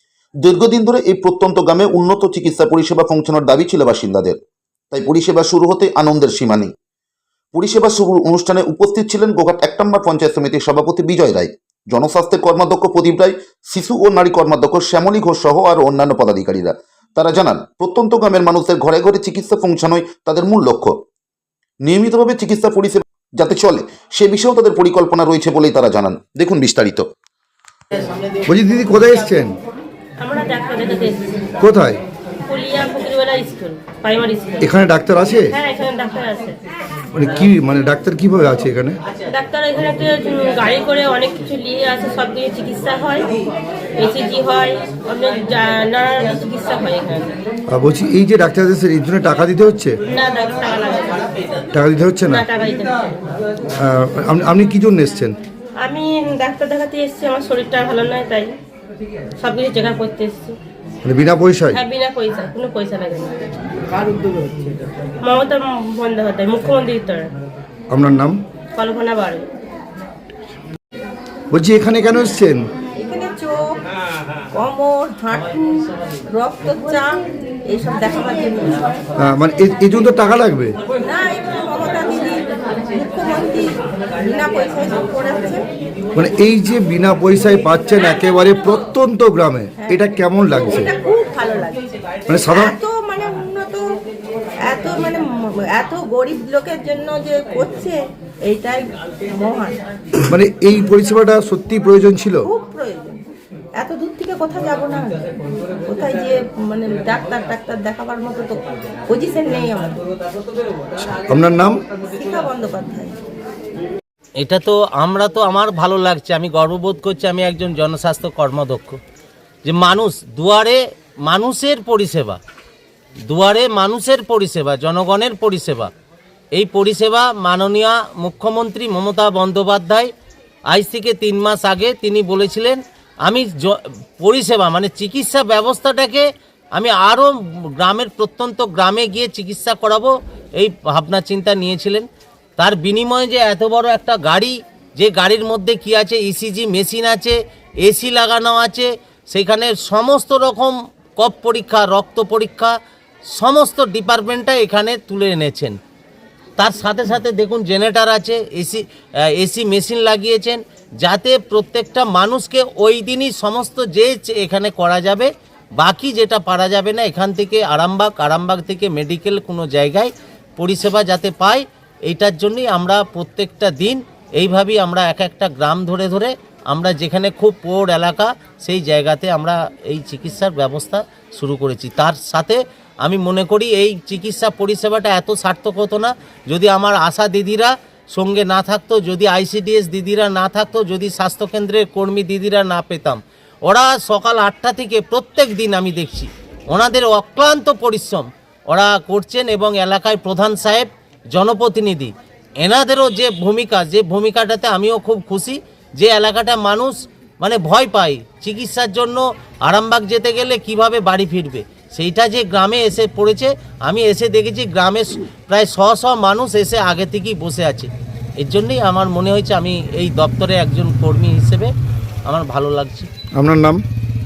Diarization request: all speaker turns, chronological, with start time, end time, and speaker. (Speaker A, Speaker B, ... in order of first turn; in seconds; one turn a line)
Speaker A: 0.4-4.4
Speaker A: 4.9-6.7
Speaker A: 7.5-21.0
Speaker A: 21.8-27.1
Speaker B: 28.4-29.5
Speaker C: 30.2-31.2
Speaker B: 31.6-32.0
Speaker C: 32.5-34.6
Speaker B: 34.6-35.5
Speaker C: 35.5-36.6
Speaker B: 37.1-39.0
Speaker C: 39.3-43.3
Speaker C: 44.0-47.3
Speaker B: 47.7-50.0
Speaker C: 50.1-51.6
Speaker B: 51.7-52.4
Speaker C: 52.3-53.1
Speaker B: 53.8-55.4
Speaker C: 55.8-58.5
Speaker C: 59.4-60.6
Speaker B: 61.0-61.8
Speaker C: 61.7-63.4
Speaker C: 65.2-67.3
Speaker B: 67.9-68.4
Speaker C: 68.7-69.5
Speaker B: 71.5-72.7
Speaker D: 73.0-73.8
Speaker D: 74.5-78.8
Speaker B: 79.2-80.8
Speaker D: 81.0-85.6
Speaker B: 86.1-90.9
Speaker D: 89.8-91.8
Speaker B: 92.3-92.7
Speaker D: 92.5-94.0
Speaker D: 94.6-99.8
Speaker B: 100.3-102.5
Speaker D: 102.4-103.2
Speaker D: 103.7-110.0
Speaker B: 111.3-111.8
Speaker D: 112.0-113.2
Speaker E: 114.4-119.0
Speaker E: 119.6-122.4
Speaker E: 123.3-125.9
Speaker E: 126.5-130.1
Speaker E: 130.7-142.1
Speaker E: 142.6-152.8
Speaker E: 153.3-155.8
Speaker E: 156.6-221.7
Speaker E: 222.2-223.1
Speaker B: 223.3-223.8